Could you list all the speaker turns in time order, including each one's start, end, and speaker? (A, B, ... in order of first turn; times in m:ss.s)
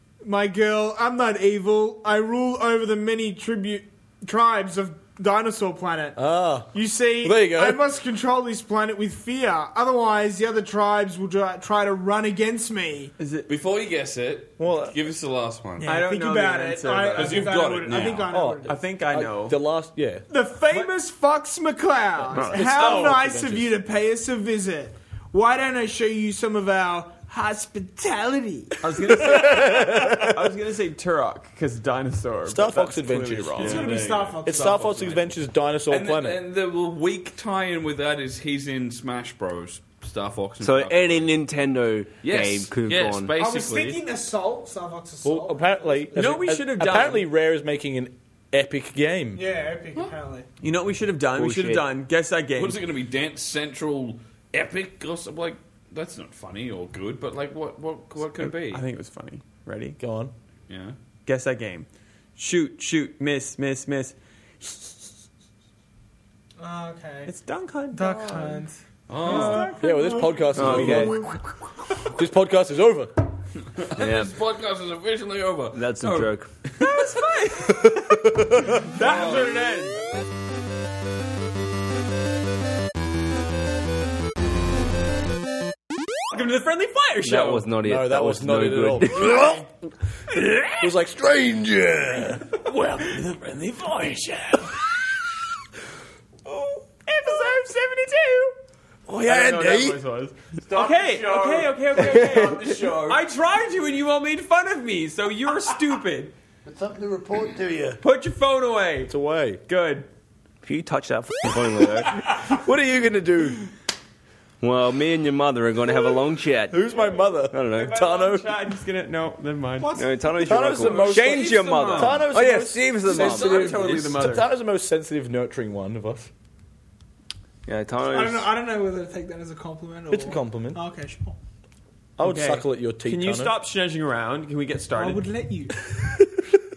0:00.2-0:13.1 A
0:06.2-0:07.8 B
0:13.2-0:13.5 C
0:13.5-0:15.9 D
0:14.6-0:15.0 B
0:15.8-0:18.8 A
0:15.8-0:17.7 C
0:17.1-0:18.4 D
0:18.3-0:20.2 B
0:18.6-0:19.6 C
0:20.3-0:29.7 A
0:22.3-0:23.3 C
0:22.5-0:23.7 B
0:28.8-0:33.9 C
0:29.2-0:30.5 B
0:32.4-0:33.8 B
0:33.6-0:35.4 D
0:33.6-0:35.2 A
0:34.4-0:36.4 B
0:35.9-0:41.4 D
0:40.6-0:43.3 E
0:42.2-0:44.0 D
0:43.4-0:46.4 A
0:45.2-0:49.4 B
0:46.2-0:47.2 C
0:49.3-0:50.5 A
0:50.6-0:52.8 C
0:51.3-0:51.8 E
0:52.6-0:58.8 D
0:58.4-1:00.0 C
1:00.0-1:00.3 B
1:00.7-1:01.0 D
1:01.2-1:04.8 C
1:06.6-1:07.3 A
1:07.2-1:08.6 C
1:07.9-1:11.4 A
1:09.1-1:09.7 D
1:09.2-1:09.8 C
1:09.3-1:11.3 B
1:10.5-1:11.2 E
1:12.0-1:13.2 B
1:13.7-1:17.1 D
1:14.0-1:14.3 E
1:15.7-1:16.5 E
1:16.8-1:20.0 C
1:17.7-1:18.8 B
1:18.9-1:19.8 D
1:26.3-1:27.7 C
1:27.2-1:29.4 E
1:27.8-1:29.6 B
1:29.3-1:29.6 C
1:30.3-1:30.9 C
1:30.8-1:32.5 B
1:32.4-1:34.8 C
1:36.5-1:38.5 C
1:39.1-1:40.0 B
1:39.2-1:46.3 C
1:40.7-1:43.2 B
1:42.0-1:42.9 E
1:46.6-1:48.0 B
1:48.0-1:49.1 C
1:49.1-1:49.6 B
1:49.7-1:50.0 C
1:50.6-1:52.3 E
1:52.2-1:53.7 B
1:54.6-1:56.8 E
1:56.7-1:58.7 B
1:57.5-1:57.9 E
1:57.6-2:00.0 C
1:59.8-2:00.9 A
1:59.9-2:03.7 E
2:00.4-2:06.3 B
2:00.8-2:02.2 D
2:01.2-2:02.0 C
2:03.1-2:04.3 D
2:03.1-2:04.5 C
2:07.6-2:08.5 E
2:08.1-2:11.4 A
2:10.1-2:10.8 B
2:12.2-2:13.5 B
2:12.2-2:15.3 C
2:14.9-2:15.8 A